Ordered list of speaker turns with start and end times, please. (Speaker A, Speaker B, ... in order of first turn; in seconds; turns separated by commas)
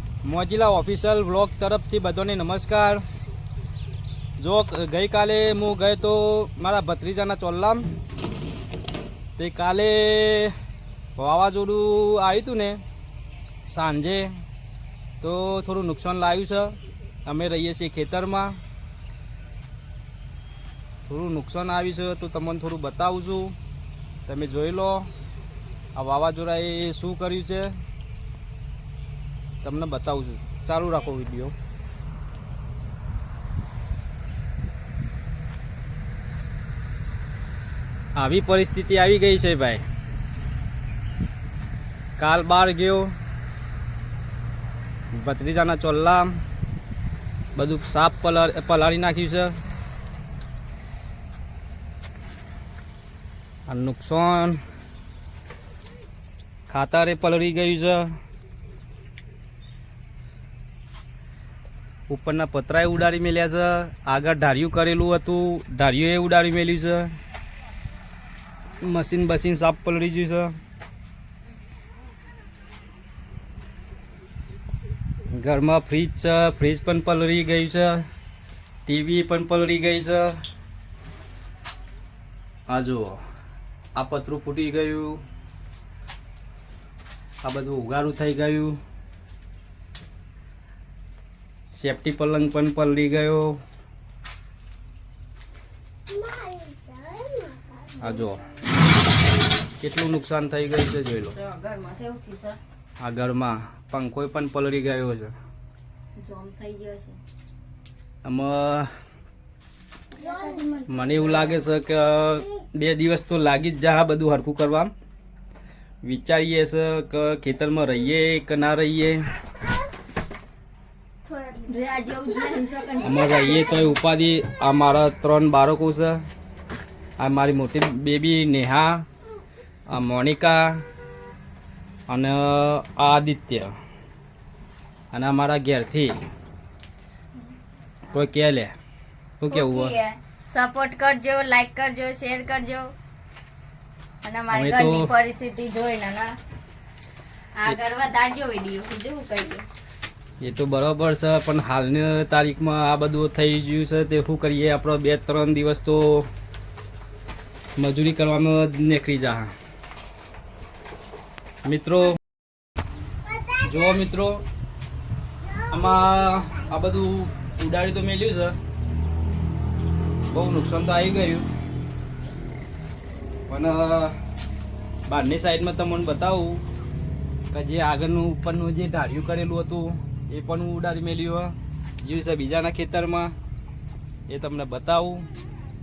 Speaker A: 0.2-3.0, Speaker A: 4.4-7.9, Speaker A: 9.4-10.6, Speaker A: 11.2-12.8, Speaker A: 13.7-14.4, Speaker A: 15.2-18.6, Speaker A: 21.1-23.6, Speaker A: 24.3-25.1, Speaker A: 25.9-27.8, Speaker A: 29.6-31.5, Speaker A: 38.1-39.8, Speaker A: 42.2-43.1, Speaker A: 45.1-46.4, Speaker A: 47.5-49.6, Speaker A: 53.7-54.6, Speaker A: 56.7-58.1, Speaker A: 62.1-67.1, Speaker A: 68.8-70.5, Speaker A: 75.3-78.1, Speaker A: 78.9-80.4, Speaker A: 82.7-83.2, Speaker A: 84.0-85.2, Speaker A: 87.4-88.8, Speaker A: 91.7-93.6, Speaker B: 96.5-97.6, Speaker A: 98.0-98.5, Speaker A: 99.8-101.4, Speaker B: 101.3-102.6, Speaker A: 103.0-105.3, Speaker B: 106.2-107.2, Speaker A: 108.2-108.9, Speaker B: 110.2-111.6, Speaker A: 110.9-114.9, Speaker A: 116.0-119.3, Speaker B: 121.3-124.0, Speaker A: 123.0-126.2, Speaker A: 127.2-129.1, Speaker A: 129.9-130.8, Speaker A: 132.1-133.8, Speaker A: 135.1-136.2, Speaker A: 138.1-138.8, Speaker A: 139.4-140.0, Speaker B: 139.5-142.9, Speaker B: 144.2-146.3, Speaker A: 144.5-145.1, Speaker B: 147.6-149.7, Speaker A: 150.4-156.3, Speaker A: 157.8-159.5, Speaker A: 161.7-162.2, Speaker A: 163.5-164.4, Speaker A: 165.6-168.6, Speaker A: 170.3-171.4, Speaker A: 173.5-174.2, Speaker A: 175.1-176.6, Speaker A: 177.5-183.3, Speaker A: 184.3-185.3